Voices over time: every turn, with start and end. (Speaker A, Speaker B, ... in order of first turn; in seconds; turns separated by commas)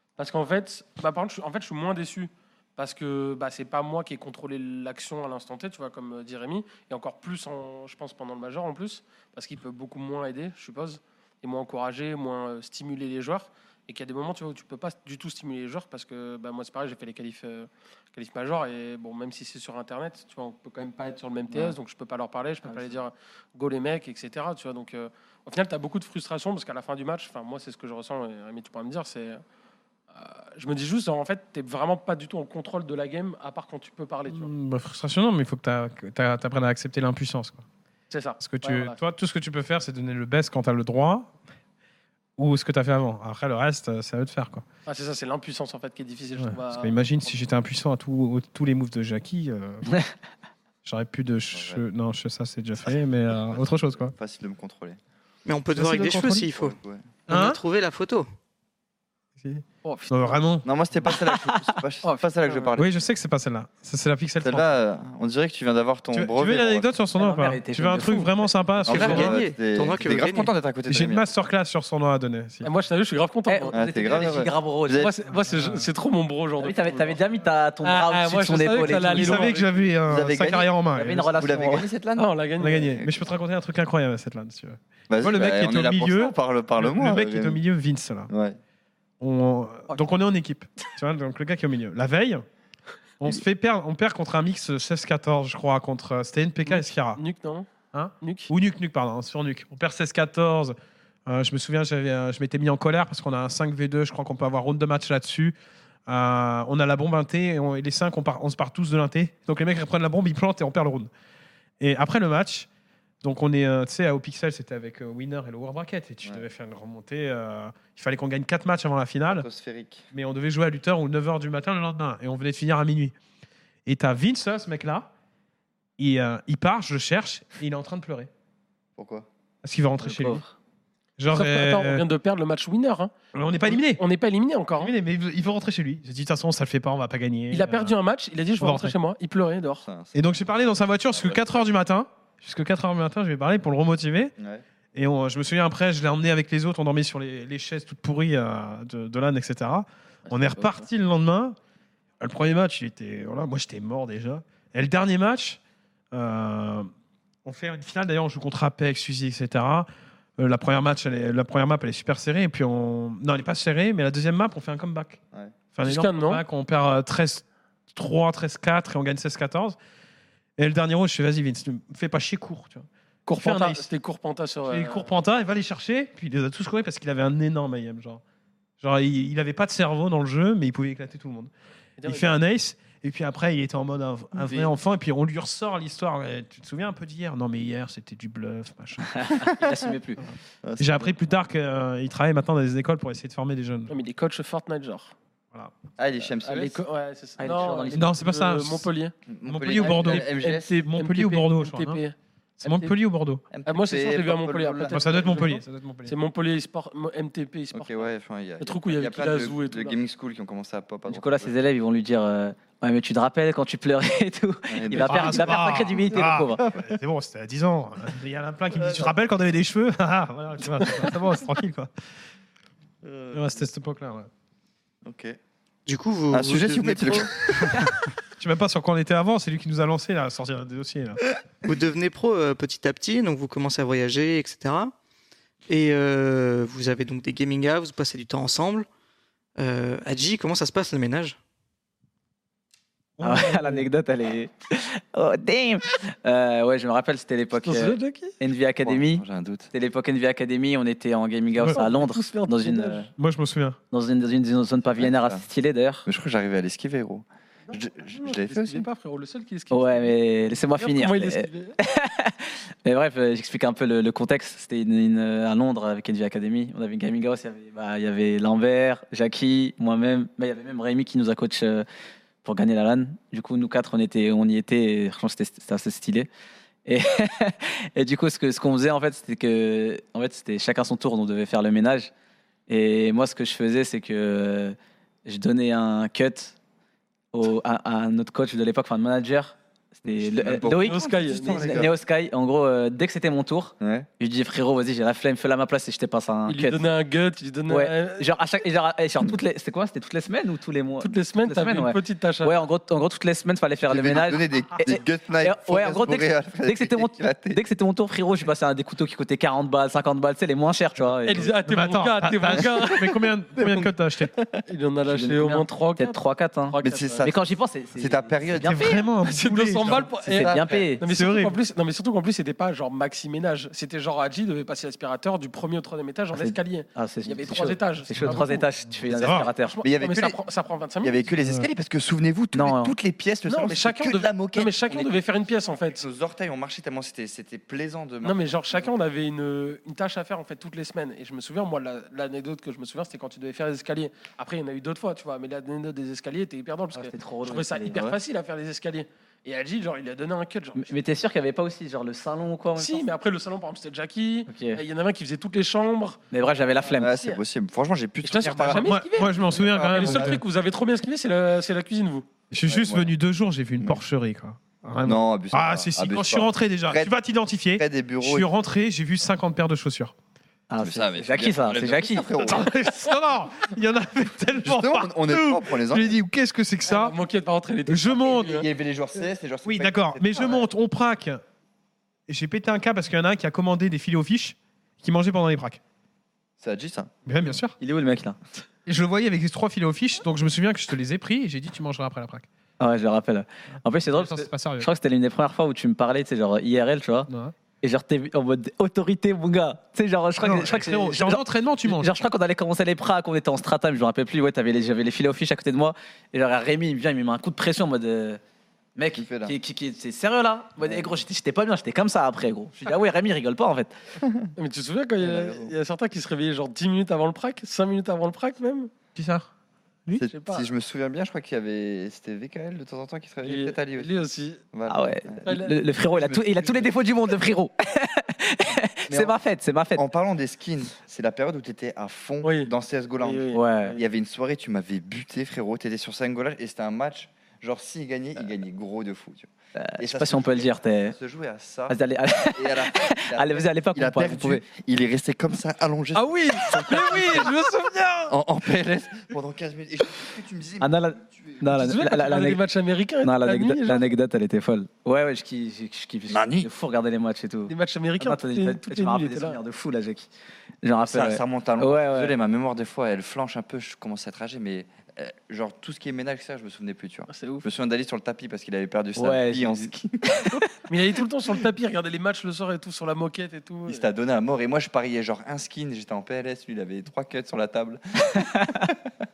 Speaker A: 0.2-29.4, Speaker B: 22.6-22.9, Speaker A: 30.1-34.5, Speaker C: 34.3-37.6, Speaker A: 38.1-39.0, Speaker C: 38.4-41.3, Speaker C: 42.4-44.6, Speaker A: 44.9-47.4, Speaker C: 46.4-50.0, Speaker C: 50.8-54.1, Speaker D: 51.5-51.8, Speaker D: 53.5-55.0, Speaker E: 55.5-56.7, Speaker C: 55.7-56.5, Speaker D: 56.5-57.1, Speaker C: 57.3-57.6, Speaker E: 57.3-58.3, Speaker C: 59.4-60.6, Speaker A: 59.8-60.4, Speaker D: 60.6-62.9, Speaker A: 62.0-62.8, Speaker C: 62.8-64.7, Speaker D: 64.4-66.9, Speaker C: 66.1-69.4, Speaker B: 67.2-68.5, Speaker D: 68.8-71.3, Speaker E: 68.9-70.5, Speaker C: 70.9-72.7, Speaker A: 72.6-73.8, Speaker B: 73.5-75.1, Speaker D: 73.7-75.1, Speaker A: 75.0-77.2, Speaker C: 75.3-75.9, Speaker B: 76.6-79.5, Speaker A: 77.8-79.9, Speaker C: 79.0-81.3, Speaker D: 80.1-80.7, Speaker B: 80.9-81.9, Speaker D: 81.2-82.3, Speaker A: 82.2-83.0, Speaker C: 82.6-88.3, Speaker D: 83.0-83.2, Speaker D: 85.1-87.6, Speaker D: 88.3-88.6, Speaker C: 89.2-92.4, Speaker C: 93.2-97.2, Speaker A: 96.7-97.7, Speaker C: 97.9-105.5, Speaker A: 98.2-98.5, Speaker C: 106.1-111.1, Speaker C: 111.8-112.7, Speaker C: 113.2-119.5, Speaker D: 119.3-120.0, Speaker C: 120.1-123.1, Speaker C: 123.8-125.1, Speaker C: 126.0-128.3, Speaker D: 129.0-129.3, Speaker C: 129.6-130.4, Speaker B: 130.0-130.5, Speaker C: 131.2-132.0, Speaker A: 131.3-133.1, Speaker C: 133.3-134.0, Speaker A: 133.6-134.9, Speaker C: 134.8-137.9, Speaker A: 137.5-139.8, Speaker C: 138.6-138.9, Speaker D: 139.8-140.2, Speaker C: 140.1-144.3, Speaker D: 141.1-141.6, Speaker D: 144.4-144.6, Speaker C: 144.9-151.6, Speaker A: 150.3-150.9, Speaker C: 152.2-155.6, Speaker C: 156.1-156.9, Speaker C: 157.4-165.2, Speaker C: 165.7-169.8, Speaker A: 165.8-166.4, Speaker C: 170.6-173.8, Speaker A: 173.3-175.1, Speaker C: 174.7-178.2, Speaker C: 178.8-181.5, Speaker A: 182.0-182.3, Speaker C: 182.0-189.4, Speaker D: 184.4-184.7, Speaker B: 189.1-190.2, Speaker D: 190.6-191.1, Speaker C: 190.8-194.0, Speaker A: 193.9-195.1, Speaker D: 196.0-196.8, Speaker A: 196.4-199.1, Speaker B: 197.4-198.1, Speaker C: 197.9-198.9, Speaker D: 199.3-200.8, Speaker C: 199.4-202.0, Speaker A: 199.8-202.9, Speaker C: 202.6-203.4, Speaker D: 203.5-205.3, Speaker A: 203.6-210.0, Speaker C: 204.9-206.1, Speaker D: 207.7-211.5, Speaker B: 211.1-216.6, Speaker D: 214.7-215.7, Speaker C: 214.9-221.9, Speaker D: 216.6-216.9, Speaker D: 218.7-219.1, Speaker D: 223.0-223.5, Speaker C: 223.3-224.3, Speaker D: 225.0-225.4, Speaker E: 225.8-227.8, Speaker D: 226.3-228.0, Speaker C: 228.4-231.2, Speaker E: 231.6-234.9, Speaker E: 235.7-238.9, Speaker E: 239.6-241.4, Speaker C: 243.2-243.9, Speaker B: 243.2-253.1, Speaker A: 247.6-248.3, Speaker D: 248.8-249.7, Speaker A: 251.6-253.1, Speaker C: 253.2-253.8, Speaker B: 253.9-256.1, Speaker D: 255.0-255.4, Speaker D: 256.1-258.9, Speaker A: 257.7-260.2, Speaker B: 259.7-271.9, Speaker A: 260.7-261.8, Speaker B: 272.4-276.3, Speaker B: 276.9-282.1, Speaker B: 282.7-286.5, Speaker B: 287.3-296.8, Speaker D: 290.2-291.9, Speaker A: 290.7-291.9, Speaker D: 293.8-294.1, Speaker A: 296.5-298.3, Speaker B: 297.7-311.5, Speaker A: 301.0-302.5, Speaker D: 303.9-307.6, Speaker A: 311.2-313.2, Speaker C: 311.6-314.3, Speaker D: 313.6-314.6, Speaker A: 314.7-317.2, Speaker B: 315.1-319.0, Speaker D: 316.8-317.4, Speaker D: 317.9-319.0, Speaker C: 318.6-320.2, Speaker A: 319.2-331.2, Speaker B: 320.2-321.0, Speaker D: 320.4-320.9, Speaker C: 321.0-321.6, Speaker B: 326.3-329.8, Speaker C: 328.2-328.5, Speaker C: 329.1-329.5, Speaker D: 329.8-330.4, Speaker D: 331.0-335.2, Speaker C: 331.4-331.7, Speaker B: 332.5-332.9, Speaker A: 333.5-336.0, Speaker D: 335.9-338.9, Speaker A: 338.2-350.9, Speaker B: 346.9-348.0, Speaker B: 350.7-353.1, Speaker A: 352.8-357.4, Speaker B: 354.5-354.8, Speaker B: 356.3-357.1, Speaker D: 356.9-360.4, Speaker A: 358.2-362.3, Speaker C: 358.7-360.4, Speaker C: 362.5-370.1, Speaker D: 362.6-363.1, Speaker D: 365.0-367.1, Speaker D: 367.8-368.5, Speaker B: 370.7-372.6, Speaker D: 370.8-372.7, Speaker C: 372.4-377.2, Speaker D: 374.6-376.1, Speaker A: 376.9-378.7, Speaker C: 377.9-378.5, Speaker D: 378.4-380.6, Speaker C: 379.6-381.4, Speaker C: 382.3-385.8, Speaker D: 386.6-387.1, Speaker C: 387.2-387.8, Speaker B: 387.8-388.4, Speaker C: 388.9-392.4, Speaker B: 392.8-397.3, Speaker C: 394.1-394.9, Speaker C: 397.3-397.5, Speaker B: 397.8-408.4, Speaker C: 400.4-402.1, Speaker B: 408.9-413.9, Speaker D: 409.1-409.5, Speaker D: 410.8-411.1, Speaker D: 414.2-414.5, Speaker A: 414.6-418.9, Speaker D: 415.2-415.7, Speaker C: 419.1-419.5, Speaker D: 420.1-424.1, Speaker A: 420.3-420.7, Speaker A: 423.4-424.6, Speaker D: 424.7-425.5, Speaker B: 424.9-430.0, Speaker A: 425.4-425.8, Speaker D: 426.1-426.9, Speaker D: 429.1-429.3, Speaker D: 429.9-447.5, Speaker A: 432.4-434.0, Speaker B: 433.5-434.0, Speaker B: 439.8-441.2, Speaker B: 441.9-444.6, Speaker A: 446.1-448.3, Speaker D: 448.3-451.6, Speaker B: 450.8-452.6, Speaker A: 451.6-454.1, Speaker B: 453.2-460.3, Speaker D: 456.3-456.7, Speaker A: 457.7-459.6, Speaker B: 460.8-462.3, Speaker D: 461.0-470.5, Speaker A: 467.3-467.6, Speaker B: 469.1-470.7, Speaker A: 470.9-474.1, Speaker D: 473.9-479.0, Speaker B: 478.4-478.9